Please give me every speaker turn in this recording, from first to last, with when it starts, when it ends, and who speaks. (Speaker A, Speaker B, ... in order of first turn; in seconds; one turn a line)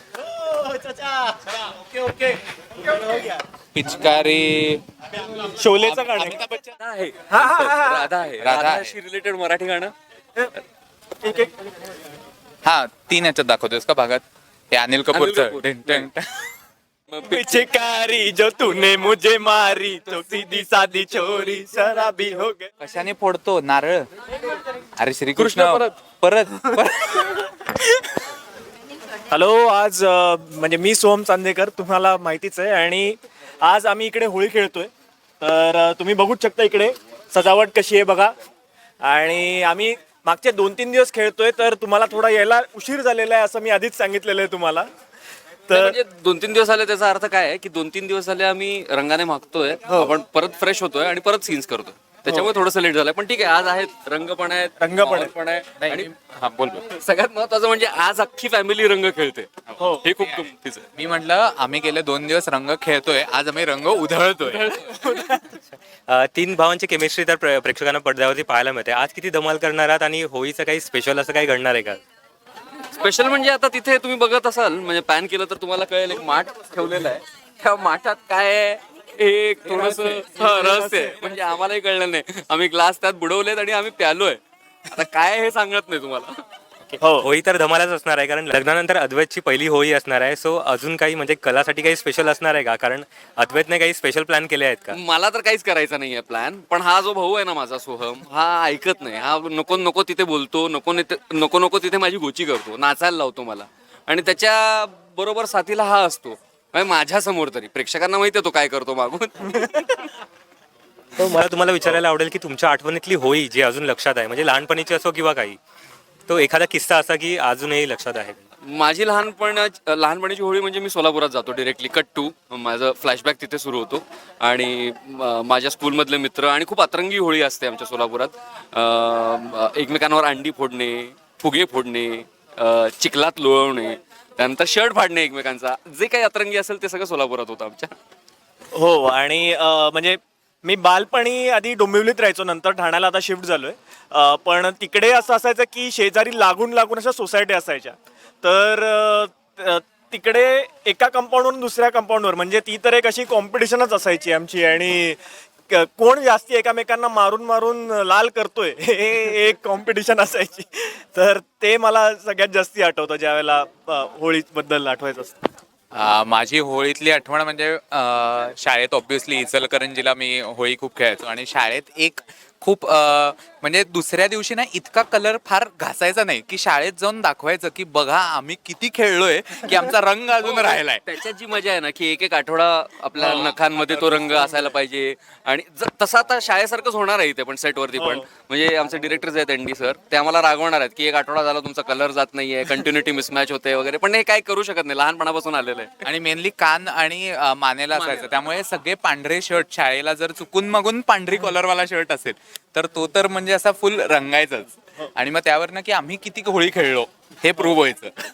Speaker A: 0.2-2.4
Speaker A: 2.9-3.4
Speaker B: 3.7-4.8
Speaker A: 5.5-6.4
Speaker B: 5.8-6.8
Speaker C: 6.8-9.9
Speaker A: 7.3-8.1
Speaker B: 8.4-8.9
Speaker A: 11.2-11.5
Speaker B: 12.7-16.5
Speaker C: 15.1-16.1
Speaker C: 17.1-17.7
Speaker A: 17.3-22.7
Speaker B: 22.8-24.1
Speaker B: 25.0-27.8
Speaker C: 25.4-25.9
Speaker A: 29.3-38.3
Speaker A: 39.0-44.9
Speaker A: 45.7-46.0
Speaker C: 45.7-56.1
Speaker A: 49.9-50.1
Speaker A: 54.8-55.3
Speaker B: 55.8-56.9
Speaker C: 56.9-60.9
Speaker A: 59.8-60.0
Speaker B: 61.0-64.7
Speaker C: 64.4-65.4
Speaker A: 65.1-65.4
Speaker D: 65.5-72.0
Speaker C: 72.9-86.4
Speaker A: 79.6-81.4
Speaker D: 86.9-95.0
Speaker A: 87.0-87.3
Speaker C: 94.9-110.0
Speaker A: 109.5-109.8
Speaker D: 111.2-115.6
Speaker D: 116.3-118.4
Speaker C: 118.7-137.9
Speaker A: 138.7-165.4
Speaker B: 165.9-181.0
Speaker C: 180.4-195.9
Speaker A: 183.2-184.4
Speaker A: 188.0-188.3
Speaker B: 196.0-208.1
Speaker C: 197.9-198.3